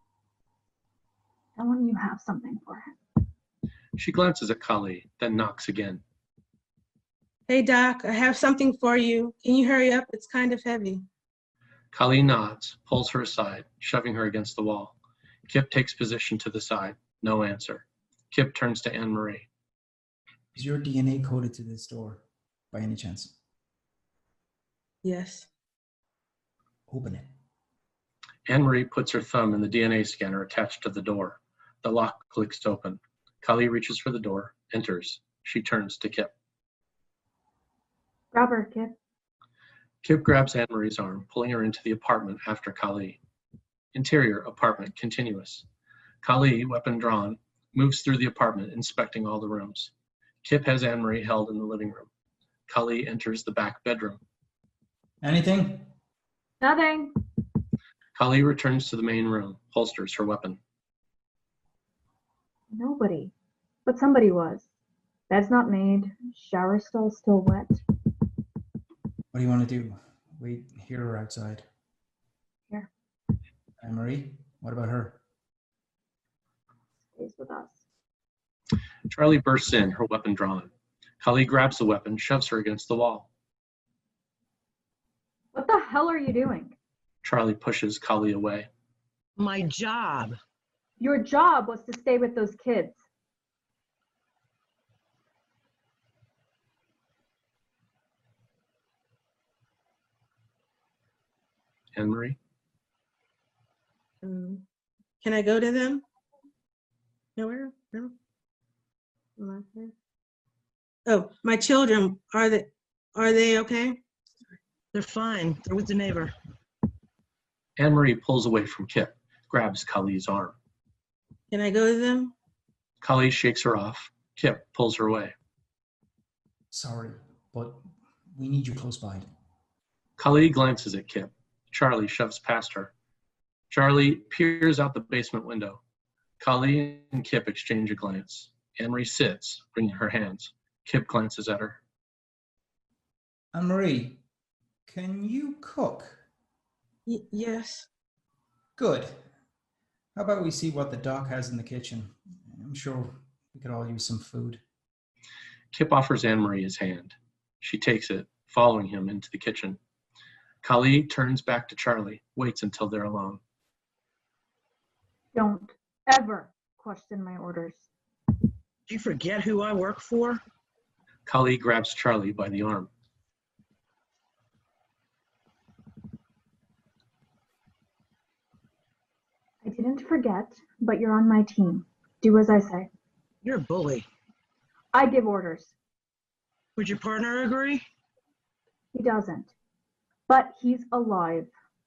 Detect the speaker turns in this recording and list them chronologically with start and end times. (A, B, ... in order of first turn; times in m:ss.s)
0:01.6-0:03.0 A
0:04.0-0:06.0 B
0:07.5-0:11.0 C
0:11.9-0:15.0 B
0:15.5-0:19.5 B
0:20.5-0:23.4 D
0:25.0-0:25.5 C
0:26.9-0:27.3 D
0:28.5-0:36.3 B
0:38.3-0:39.0 A
0:40.0-0:43.2 B
0:43.9-0:45.6 B
0:46.2-0:49.9 B
0:50.4-0:52.1 B
0:52.7-0:54.2 B
0:55.2-0:55.9 D
0:56.6-0:57.1 A
0:58.2-1:00.6 B
1:02.7-1:03.3 A
1:03.9-1:04.7 A
1:05.3-1:07.8 A
1:09.3-1:11.6 D
1:13.8-1:15.2 D
1:17.2-1:17.8 A
1:19.1-1:23.3 B
1:25.5-1:26.8 A
1:27.2-1:28.7 B
1:29.4-1:30.4 E
1:31.0-1:33.0 A
1:42.0-1:42.4 B
1:44.2-1:44.6 C
1:45.2-1:46.0 C
1:47.4-1:48.2 C
1:49.4-1:49.9 C
1:51.1-1:54.0 C
1:54.9-1:56.3 E
1:57.8-2:00.6 B
2:01.5-2:02.3 C
2:03.0-2:05.3 B
2:06.7-2:09.3 D
2:10.2-2:12.9 B
2:13.7-2:15.8 B
2:16.4-2:21.8 B
2:23.5-2:24.2 D
2:24.9-2:26.2 D
2:27.1-2:27.9 C
2:28.8-2:29.2 D
2:30.2-2:34.6 D
2:35.7-2:39.8 B
2:40.6-2:43.4 B
2:45.3-2:47.9 A
2:48.9-2:50.4 E
2:51.3-2:52.9 B
2:59.6-3:02.9 A
3:03.4-3:04.1 E
3:04.9-3:05.7 A
3:06.8-3:07.8 E
3:08.9-3:09.5 A
3:10.3-3:11.5 A